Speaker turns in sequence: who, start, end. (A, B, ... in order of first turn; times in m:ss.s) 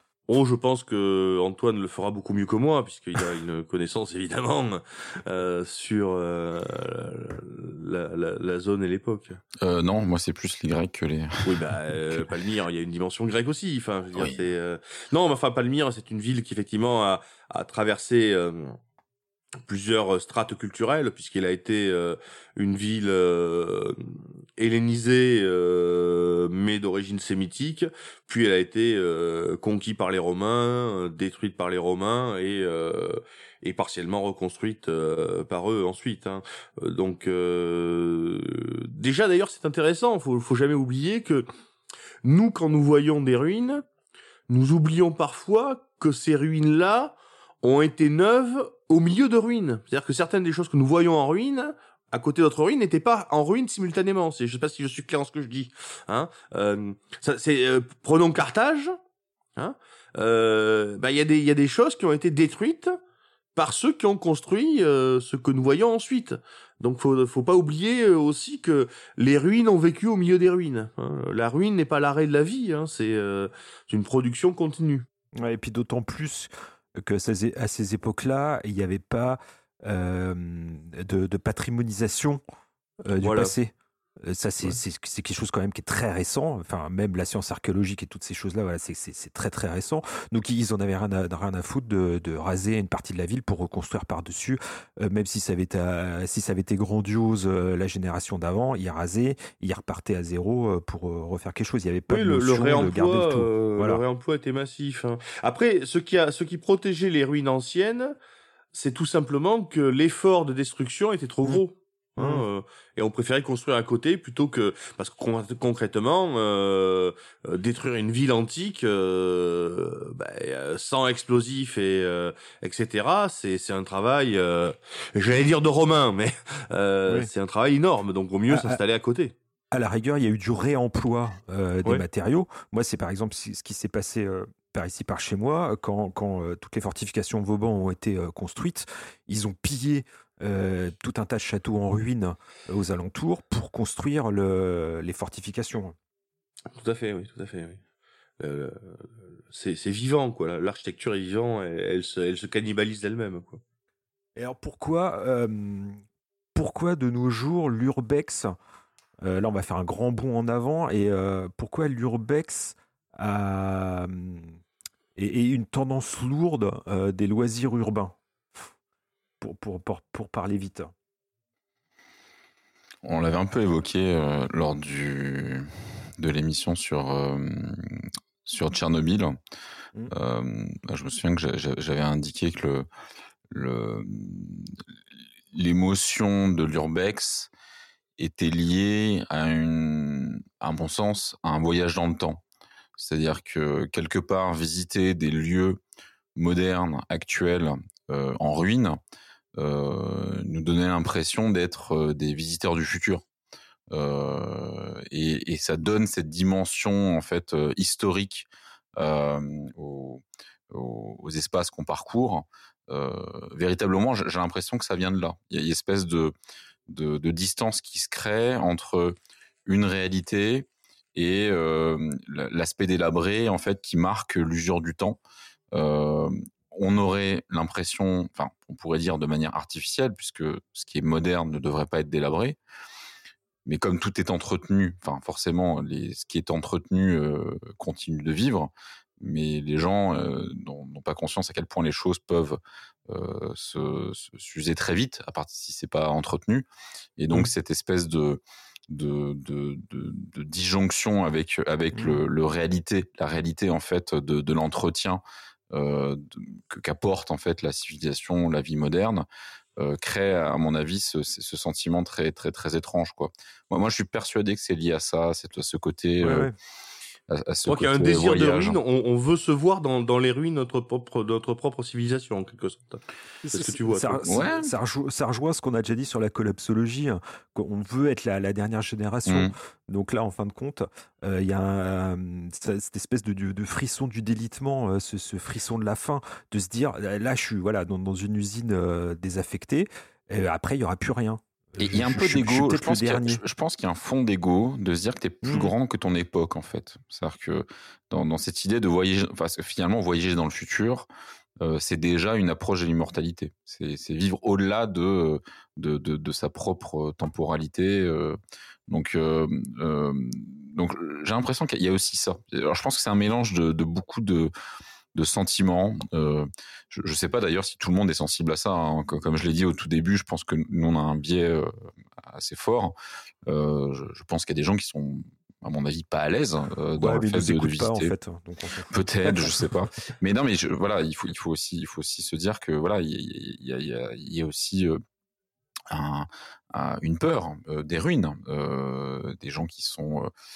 0:00.3-0:09.4 A
0:09.6-0:11.7 B
0:11.4-0:18.8 A
0:19.7-0:41.5 A
0:42.2-0:43.8 A
0:44.5-0:59.0 A
0:59.6-1:03.0 A
1:03.6-1:15.1 A
1:15.4-1:22.4 C
1:23.0-1:44.0 C
1:23.2-1:23.5 A
1:42.1-1:48.2 A
1:48.7-2:09.4 A
1:52.2-1:52.5 C
2:08.5-2:08.8 C
2:09.7-2:26.0 C
2:26.7-2:27.8 A
2:28.4-2:33.6 A
2:34.4-2:36.0 C
2:36.6-2:38.5 C
2:39.2-2:44.6 C
2:45.2-2:48.2 C
2:49.4-2:50.9 C
2:53.0-2:59.4 B
3:00.1-3:02.9 B
3:03.5-3:04.8 B
3:05.5-3:07.5 B
3:08.2-3:12.4 B
3:13.0-3:15.8 B
3:16.4-3:19.0 B
3:19.6-3:23.2 B
3:23.9-3:36.3 B
3:36.9-3:45.2 B
3:45.7-3:52.6 B
3:53.7-4:06.7 B
4:07.2-4:19.2 B
4:19.8-4:26.5 B
4:26.2-4:26.5 C
4:27.3-4:28.8 B
4:27.7-4:34.3 A
4:33.4-4:53.4 C
4:34.3-4:34.7 B
4:39.3-4:39.6 B
4:51.8-5:01.1 B
4:55.4-4:55.7 C
5:01.6-5:14.5 B
5:15.2-5:23.0 B
5:23.5-5:28.1 B
5:27.0-5:29.5 C
5:28.9-5:35.0 B
5:35.9-5:40.3 B